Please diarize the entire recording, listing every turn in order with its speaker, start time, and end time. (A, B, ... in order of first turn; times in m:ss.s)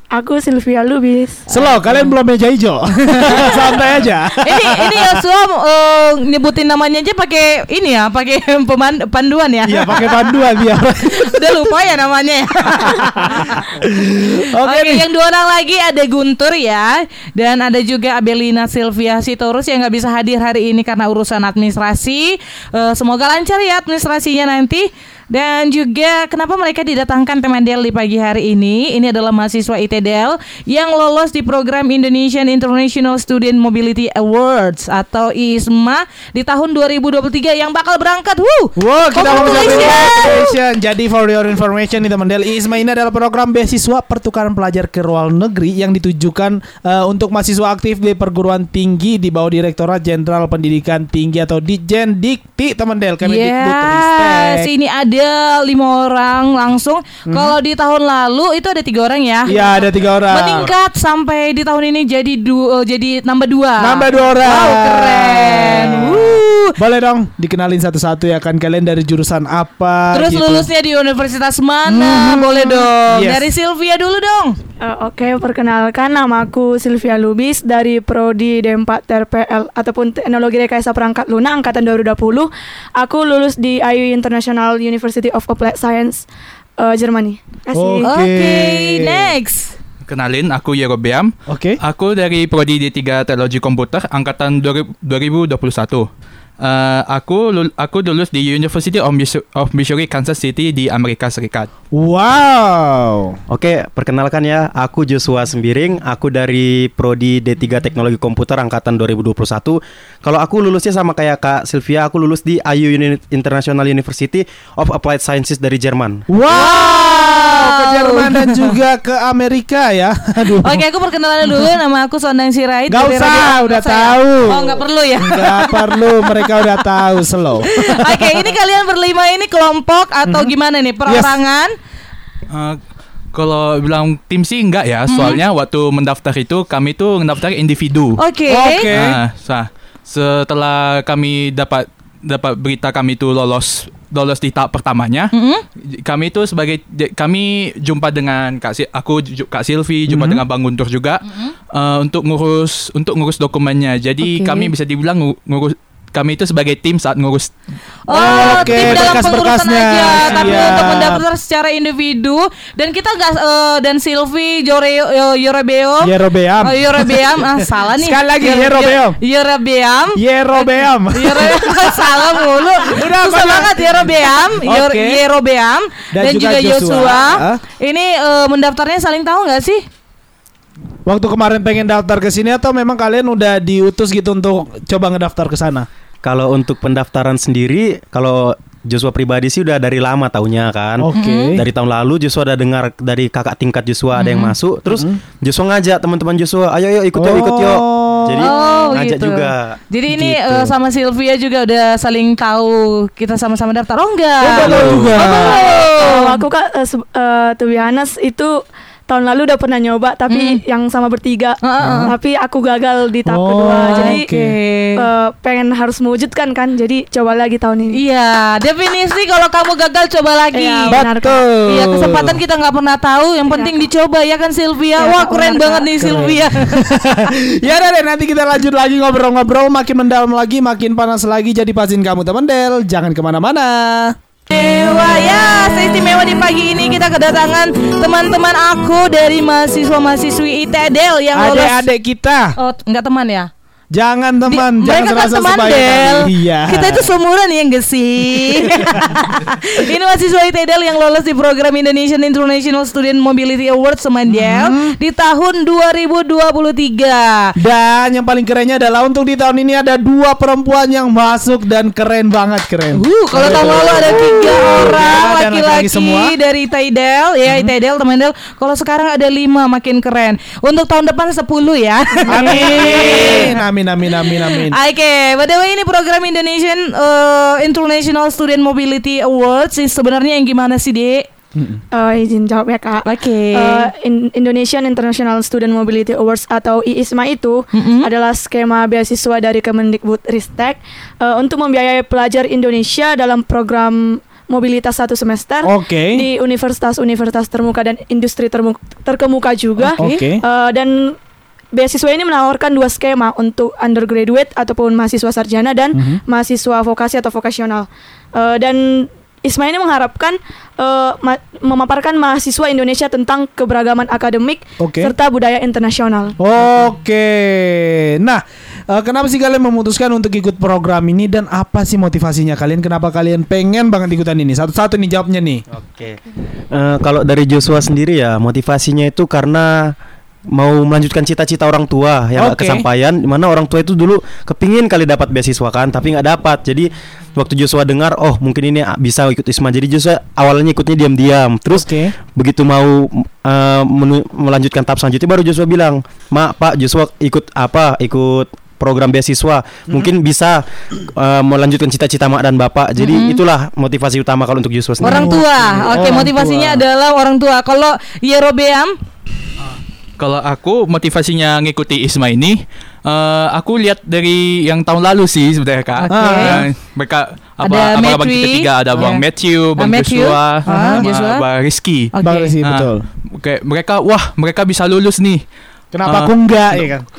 0:00.1-0:01.5 A
0:01.5-0:05.2 B
0:01.7-0:02.1 C
0:03.2-0:03.8 C
0:04.4-0:10.3 C
0:09.6-0:11.5 B
0:11.0-0:13.6 C
0:12.9-0:15.0 B
0:14.6-0:40.5 C
0:38.8-0:54.7 B
0:53.2-0:59.8 C
0:57.3-0:57.6 B
0:59.4-1:00.7 B
1:00.3-1:06.8 C
1:03.8-1:10.7 B
1:10.1-1:14.6 C
1:11.9-1:13.5 B
1:14.8-1:26.3 A
1:26.8-1:28.1 A
1:27.7-1:29.3 B
1:28.0-1:29.7 C
1:30.0-1:36.1 D
1:31.5-1:31.8 B
1:36.6-1:41.7 D
1:41.9-1:43.4 B
1:43.5-1:56.2 E
1:56.3-2:00.8 B
1:56.5-1:58.7 C
2:00.4-2:06.1 C
2:02.9-2:08.4 B
2:07.7-2:11.7 C
2:10.2-2:10.5 B
2:11.1-2:11.4 B
2:12.5-2:12.8 D
2:13.3-2:18.2 D
2:15.1-2:15.4 C
2:18.2-2:18.9 C
2:18.5-2:19.2 B
2:18.9-2:37.5 D
2:25.3-2:25.6 C
2:30.1-2:30.4 B
2:34.2-2:34.7 C
2:38.1-2:59.8 C
2:38.1-2:41.2 B
2:38.2-2:39.1 D
2:46.0-2:49.2 B
2:50.1-2:52.2 B
2:52.9-2:53.9 B
2:54.6-2:55.2 B
2:56.1-2:57.6 B
3:01.1-3:05.9 B
3:06.2-3:20.5 E
3:11.0-3:11.7 B
3:11.1-3:11.6 C
3:14.2-3:14.5 C
3:17.2-3:18.5 B
3:18.4-3:26.4 C
3:24.4-3:25.6 B
3:24.6-3:25.1 E
3:25.0-3:28.6 A
3:29.1-3:34.2 A
3:30.3-3:30.6 C
3:31.6-3:32.1 C
3:31.8-3:32.1 B
3:33.2-3:34.6 B
3:33.9-3:35.0 C
3:35.0-3:38.0 A
3:37.9-3:41.0 C
3:40.5-3:41.4 A
3:40.9-3:42.4 B
3:41.6-3:46.9 C
3:43.5-3:43.8 A
3:44.9-3:45.9 A
3:46.0-3:54.2 B
3:54.5-4:01.8 C
4:01.3-4:02.6 B
4:02.6-4:03.5 C
4:03.9-4:07.1 B
4:04.5-4:17.5 C
4:08.4-4:09.2 B
4:14.3-4:14.9 B
4:17.6-4:26.3 B
4:22.9-4:33.6 C
4:32.3-4:34.8 B
4:34.2-4:41.2 C
4:41.6-4:41.8 B
4:41.9-5:01.2 A
4:43.0-4:43.9 C
4:47.7-4:48.1 C
4:55.6-4:56.2 B
4:59.8-5:00.4 B
5:01.7-5:16.4 A
5:05.9-5:06.2 B
5:14.8-5:15.1 B
5:16.4-5:25.6 B
5:25.7-5:26.2 E
5:26.7-5:29.9 E
5:30.5-5:50.6 E
5:32.4-5:32.8 B
5:41.7-5:42.1 B
5:51.2-5:55.4 E
5:53.0-5:53.4 C
5:55.0-5:56.8 B
5:55.0-5:59.0 C
6:00.2-6:15.4 D
6:06.0-6:06.6 C
6:06.1-6:06.6 B
6:07.6-6:09.2 C
6:09.8-6:11.4 C
6:10.7-6:11.0 B
6:12.1-6:12.6 C
6:12.2-6:13.0 B
6:15.9-6:17.0 B
6:16.0-6:16.9 D